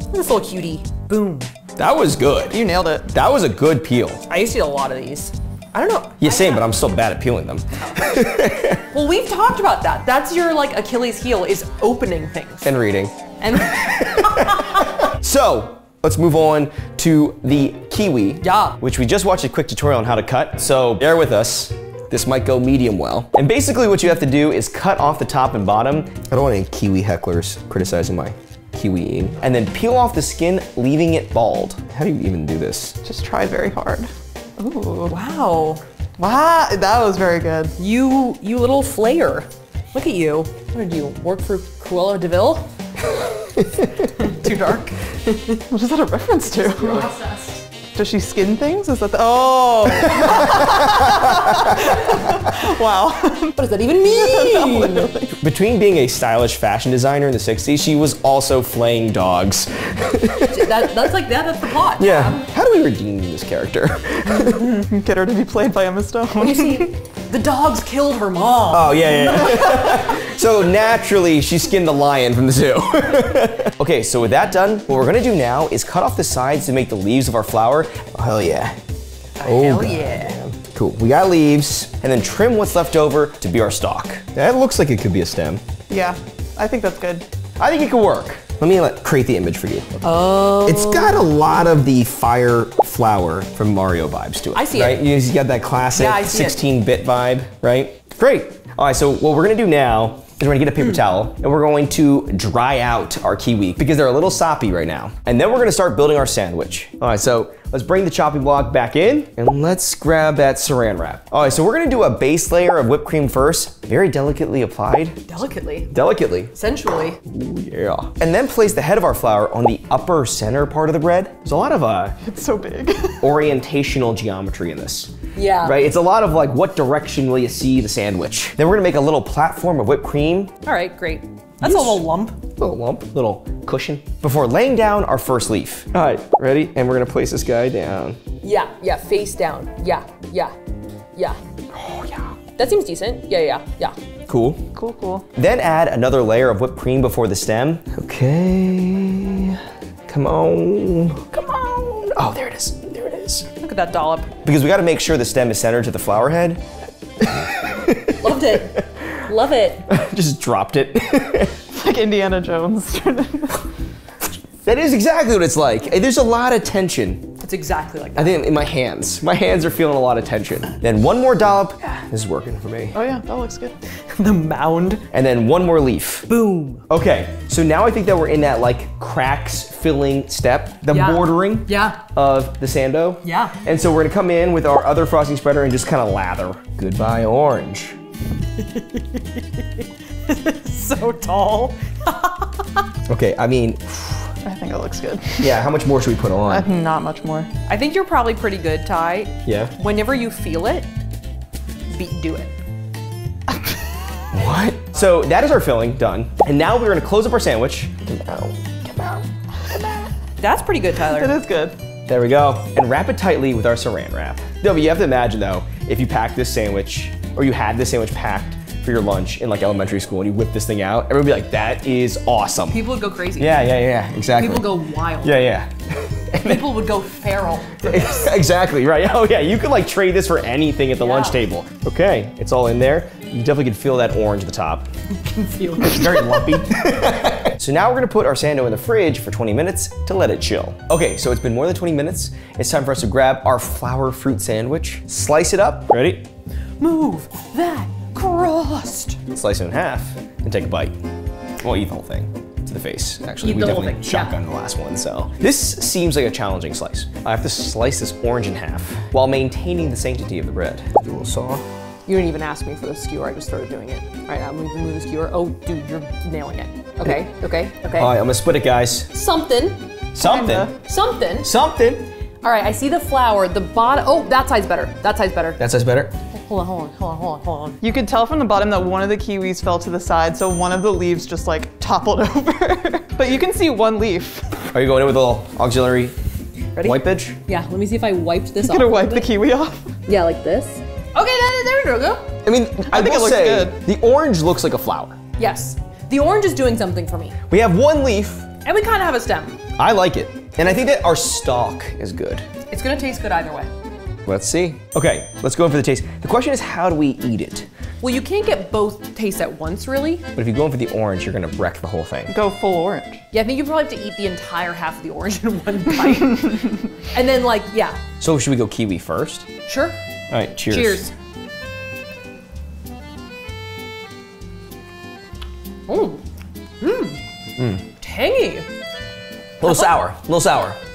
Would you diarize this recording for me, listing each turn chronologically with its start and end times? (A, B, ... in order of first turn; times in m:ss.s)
0:00.1-0:01.5 A
0:01.8-0:04.2 B
0:02.5-0:03.1 C
0:04.3-0:06.6 A
0:06.2-0:08.8 B
0:07.7-0:08.0 A
0:08.9-0:12.6 A
0:12.6-0:33.0 B
0:13.4-0:14.9 A
0:18.4-0:18.8 A
0:33.0-0:35.2 C
0:35.1-0:35.8 A
0:36.2-0:37.7 C
0:37.8-0:42.7 A
0:43.6-0:43.9 B
0:44.2-0:45.6 A
0:45.7-0:47.1 C
0:46.5-0:47.6 A
0:47.9-0:55.3 C
0:50.0-0:50.6 A
0:50.3-0:51.8 B
0:53.6-0:55.1 A
0:55.4-1:00.9 B
1:00.4-1:02.4 A
1:02.0-1:04.9 B
1:04.8-1:06.9 C
1:06.4-1:10.2 A
1:08.7-1:18.8 B
1:19.4-1:20.4 A
1:19.4-1:25.6 B
1:25.9-1:27.2 C
1:27.6-1:30.0 B
1:30.0-1:31.3 A
1:30.6-1:55.2 B
1:34.5-1:35.0 A
1:35.9-1:36.6 A
1:55.3-1:55.9 A
1:55.9-1:56.5 B
1:56.5-1:57.2 A
1:57.2-2:02.2 B
2:02.2-2:03.3 C
2:03.2-2:10.5 B
2:05.3-2:05.8 A
2:10.6-2:12.4 A
2:11.6-2:12.0 B
2:12.6-2:18.2 B
2:18.4-2:20.5 A
2:21.7-2:22.4 B
2:22.6-2:24.0 A
2:24.3-2:24.6 B
2:24.7-2:25.2 C
2:25.3-2:33.5 B
2:33.6-2:34.3 A
2:34.4-2:36.6 B
2:37.2-2:39.2 B
2:38.2-2:39.8 A
2:39.9-2:41.6 B
2:41.7-2:43.6 C
2:44.6-2:47.3 B
2:47.4-2:48.4 A
2:48.2-2:53.0 B
2:52.9-2:53.8 C
2:54.1-2:55.0 A
2:55.1-2:56.3 B
2:56.3-2:56.8 A
2:56.9-3:08.0 B
3:00.9-3:02.0 A
3:03.2-3:03.6 A
3:08.6-3:12.6 A
3:13.1-3:14.3 B
3:14.4-3:15.6 C
3:15.4-3:16.7 B
3:16.5-3:17.5 C
3:17.7-3:20.9 A
3:19.4-3:19.7 B
3:21.9-3:22.5 A
3:24.3-3:30.1 B
3:30.4-3:31.3 A
3:31.0-3:31.8 C
3:32.1-3:42.8 B
3:42.7-3:43.6 A
3:43.4-3:46.7 B
3:44.3-3:45.4 A
3:46.4-3:48.3 A
3:47.8-3:54.9 B
3:51.0-3:51.4 A
3:55.2-3:56.6 A
3:55.8-4:06.3 B
4:06.8-4:09.2 A
4:09.2-4:10.9 B
4:11.6-4:21.6 B
4:13.4-4:14.4 A
4:22.1-4:28.1 A
4:27.9-4:29.1 B
4:29.1-4:31.5 A
4:30.2-4:30.7 B
4:30.2-4:30.7 C
4:31.4-4:32.1 B
4:32.4-4:35.6 A
4:35.6-4:36.1 B
4:36.3-4:37.8 A
4:37.8-4:44.5 C
4:44.7-4:46.1 B
4:46.8-4:49.3 A
4:46.8-4:47.4 B
4:48.6-4:49.9 C
4:50.1-4:52.3 A
4:52.4-4:55.2 B
4:52.9-4:53.8 C
4:55.4-4:57.4 A
4:57.5-4:58.5 B
4:58.6-4:59.6 A
4:59.8-5:02.4 B
5:02.7-5:03.7 A
5:04.2-5:07.7 B
5:08.0-5:10.2 A
5:10.3-5:12.3 B
5:12.3-5:13.2 C
5:13.3-5:18.0 A
5:18.2-5:19.5 B
5:19.7-5:20.0 A
5:20.3-5:21.0 B
5:20.7-5:21.1 A
5:25.9-5:26.2 A
5:26.8-5:27.2 A
5:27.6-5:27.8 B
5:28.0-5:28.6 A
5:29.6-5:30.8 B
5:29.6-5:29.9 A